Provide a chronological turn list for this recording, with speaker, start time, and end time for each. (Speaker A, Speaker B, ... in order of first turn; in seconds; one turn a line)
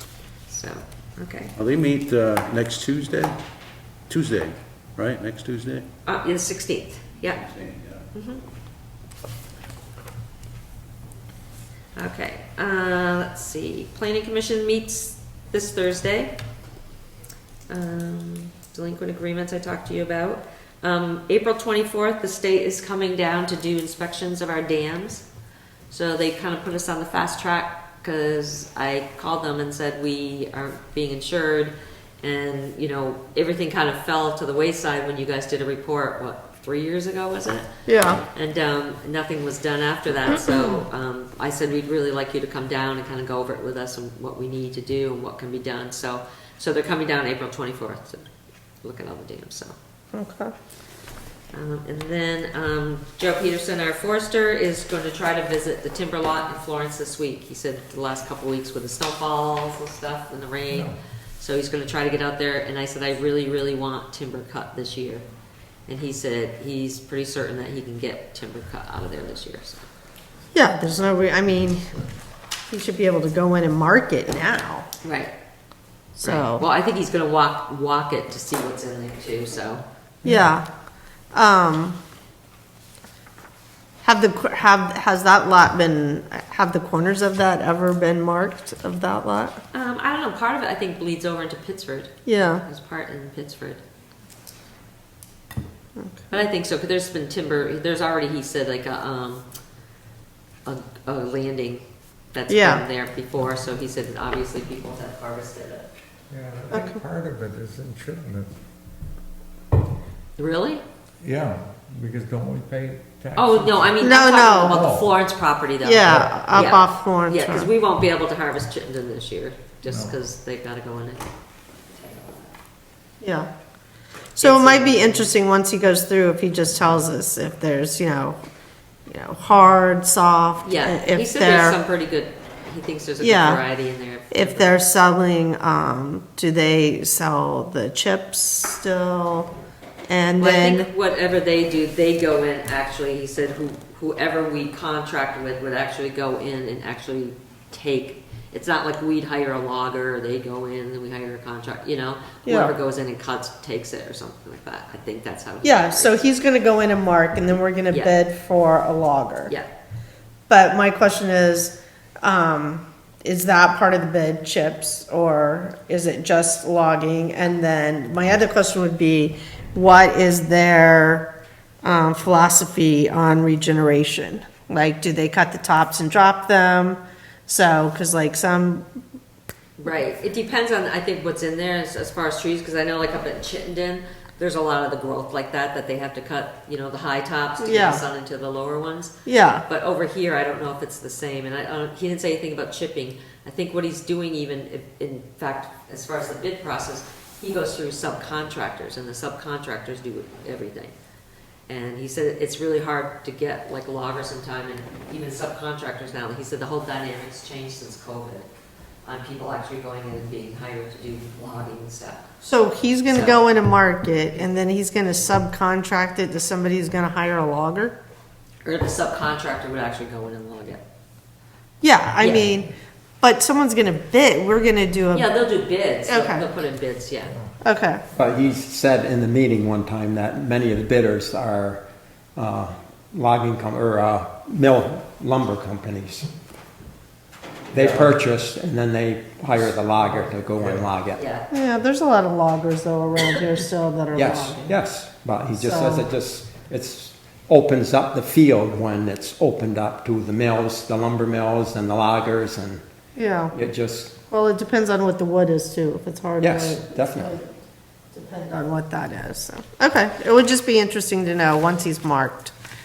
Speaker A: 0.5-1.5
Speaker B: 1.6-3.4
Speaker B: 4.1-5.9
Speaker A: 6.1-7.4
Speaker B: 7.4-8.0
Speaker A: 8.1-8.4
Speaker A: 11.9-16.3
Speaker A: 17.7-25.3
Speaker A: 25.9-37.7
Speaker C: 37.9-38.2
Speaker A: 38.2-48.2
Speaker A: 48.8-49.7
Speaker C: 50.1-50.5
Speaker A: 51.5-65.2
Speaker A: 65.9-69.8
Speaker C: 70.5-71.9
Speaker C: 72.7-74.9
Speaker A: 75.0-75.3
Speaker C: 76.2-76.6
Speaker A: 76.2-79.8
Speaker C: 80.2-80.7
Speaker C: 81.3-82.0
Speaker C: 84.0-89.6
Speaker A: 89.7-93.8
Speaker C: 92.3-92.6
Speaker C: 96.0-96.2
Speaker A: 96.3-99.5
Speaker A: 100.7-105.9
Speaker C: 102.5-102.8
Speaker D: 106.3-108.6
Speaker C: 106.7-107.0
Speaker A: 110.4-110.8
Speaker D: 111.2-114.0
Speaker A: 113.3-121.2
Speaker C: 114.0-114.8
Speaker D: 114.7-115.1
Speaker C: 115.8-117.7
Speaker D: 116.1-116.3
Speaker D: 119.9-120.2
Speaker A: 121.9-122.5
Speaker C: 123.2-123.5
Speaker C: 124.3-128.4
Speaker A: 124.4-125.3
Speaker C: 129.1-131.8
Speaker A: 130.6-134.8
Speaker C: 133.2-133.6
Speaker C: 134.3-139.5
Speaker C: 140.1-140.9
Speaker A: 140.4-156.2
Speaker C: 152.5-152.7
Speaker C: 155.6-159.5
Speaker A: 157.9-158.2
Speaker C: 160.5-171.3
Speaker C: 171.8-178.9
Speaker A: 179.8-189.1
Speaker C: 187.6-188.0
Speaker C: 189.3-189.6
Speaker A: 189.7-200.9
Speaker A: 201.7-208.5
Speaker A: 209.0-212.3
Speaker C: 212.4-218.0
Speaker A: 213.1-213.4
Speaker A: 218.6-220.8
Speaker C: 221.8-225.3
Speaker A: 222.2-222.5
Speaker A: 225.1-227.4
Speaker C: 226.1-226.4
Speaker C: 227.6-228.0
Speaker E: 228.1-236.3
Speaker E: 237.7-241.2
Speaker B: 237.7-238.2
Speaker A: 241.2-241.5
Speaker C: 241.5-244.8
Speaker E: 244.1-252.8
Speaker C: 245.6-246.1
Speaker C: 253.2-253.5
Speaker E: 253.5-254.2
Speaker C: 254.3-257.5
Speaker E: 256.4-257.4
Speaker C: 258.1-262.5